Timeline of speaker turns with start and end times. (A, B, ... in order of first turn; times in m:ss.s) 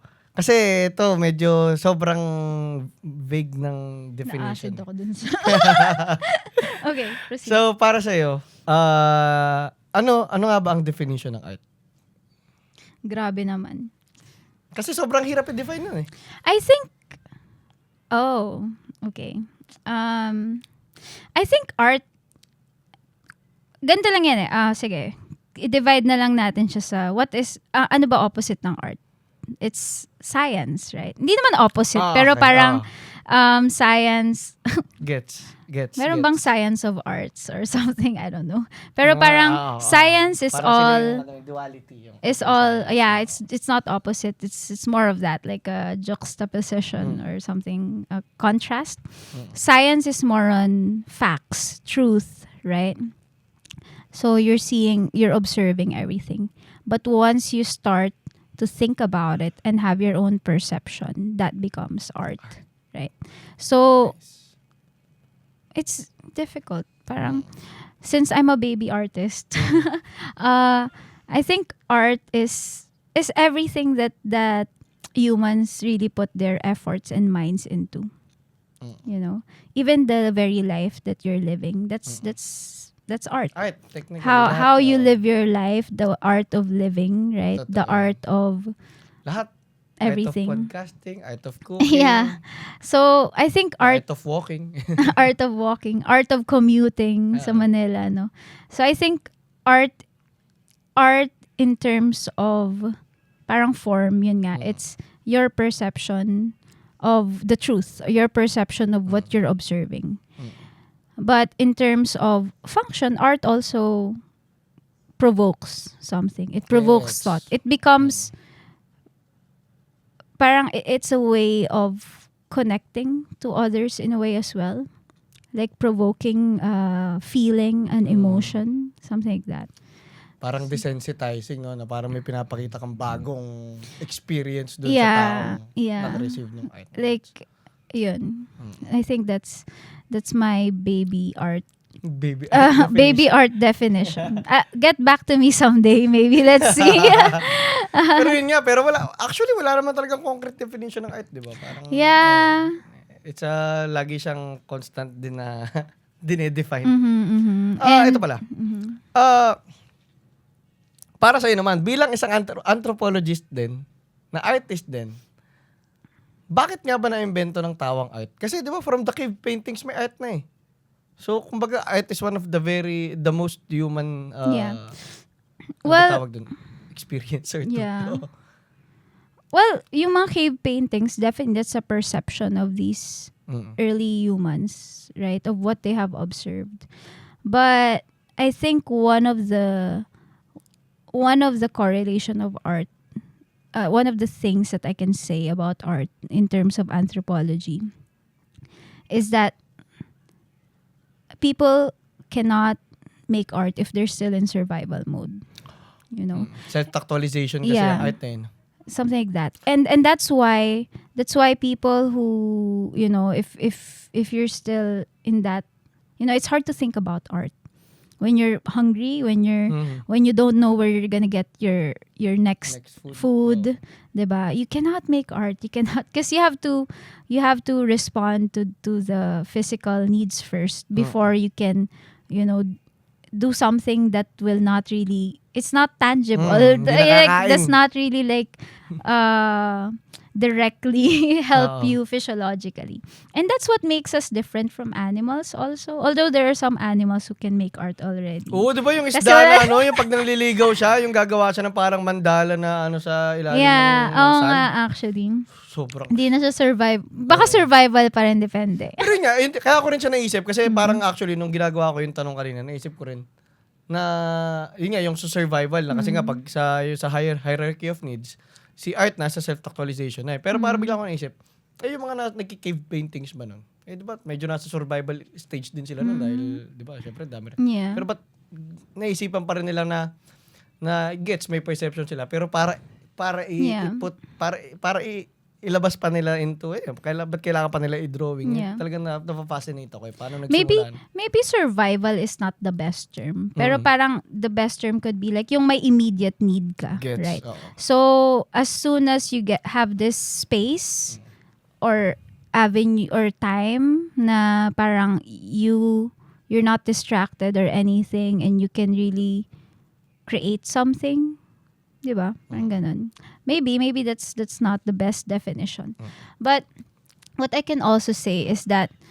0:00.4-0:04.8 A
0:04.3-0:07.6 B
0:05.5-0:06.2 A
0:07.4-0:11.6 A
0:13.1-0:13.9 B
0:14.8-0:16.1 A
0:16.4-0:17.0 B
0:18.1-0:20.6 B
0:21.4-0:22.0 B
0:23.8-0:29.0 B
0:29.6-0:34.7 B
0:32.0-0:32.9 A
0:35.0-0:36.4 A
0:36.0-0:41.2 B
0:39.0-0:43.4 A
0:42.2-0:53.2 B
0:54.1-1:04.2 B
1:04.0-1:04.5 A
1:05.8-1:18.1 B
1:07.2-1:07.5 A
1:09.6-1:09.9 A
1:18.8-1:19.1 A
1:19.1-1:23.6 B
1:23.6-1:25.2 A
1:24.2-1:28.7 B
1:27.6-1:28.2 A
1:29.3-1:29.5 A
1:30.0-1:30.7 B
1:30.0-1:32.4 A
1:31.8-1:34.0 B
1:33.8-1:35.0 A
1:35.0-1:40.0 B
1:37.3-1:37.7 A
1:41.0-1:50.2 B
1:44.6-1:44.8 A
1:49.1-1:49.3 A
1:51.2-1:54.2 B
1:55.2-1:58.3 B
1:56.7-1:58.3 A
2:00.4-2:04.9 B
2:05.5-2:09.7 B
2:08.0-2:08.6 A
2:10.4-2:17.2 A
2:14.8-2:21.7 B
2:22.1-2:23.3 A
2:22.5-2:28.4 B
2:26.7-2:27.4 A
2:28.2-2:36.9 A
2:31.9-2:32.8 B
2:36.8-2:39.0 B
2:37.8-2:38.4 A
2:39.2-2:39.6 A
2:41.2-2:43.8 A
2:44.3-2:45.2 A
2:46.5-2:50.4 A
2:51.2-2:54.9 A
2:54.5-2:55.0 B
2:55.8-2:56.2 B
2:55.8-2:58.3 A
2:57.7-2:58.2 B
2:59.5-3:06.9 B
3:03.5-3:03.8 A
3:07.4-3:10.1 B
3:11.1-3:13.0 B
3:13.8-3:17.9 B
3:19.1-3:19.6 B
3:21.4-3:25.4 B
3:26.1-3:26.5 B
3:26.4-3:28.5 A
3:27.6-3:28.2 B
3:28.9-3:35.6 B
3:36.2-3:37.5 B
3:38.2-3:52.8 B
3:39.7-3:40.0 A
3:42.7-3:43.7 A
3:53.3-4:10.1 B
3:56.4-3:57.8 A
4:01.6-4:02.0 A
4:08.5-4:14.7 A
4:13.5-4:15.5 B
4:15.7-4:16.2 A
4:16.1-4:19.1 B
4:17.3-4:17.6 A
4:19.0-4:23.2 A
4:20.6-4:21.0 B
4:23.9-4:40.1 A
4:25.9-4:26.4 B
4:30.5-4:31.0 B
4:36.0-4:36.6 B
4:37.6-4:38.1 B
4:40.8-4:51.0 A
4:43.6-4:44.1 B
4:48.4-4:48.8 B
4:50.5-5:01.2 B
4:53.6-4:53.9 A
4:56.9-4:57.7 A
5:01.8-5:09.5 B
5:10.3-5:11.4 B
5:12.0-5:16.7 B
5:17.4-5:19.0 B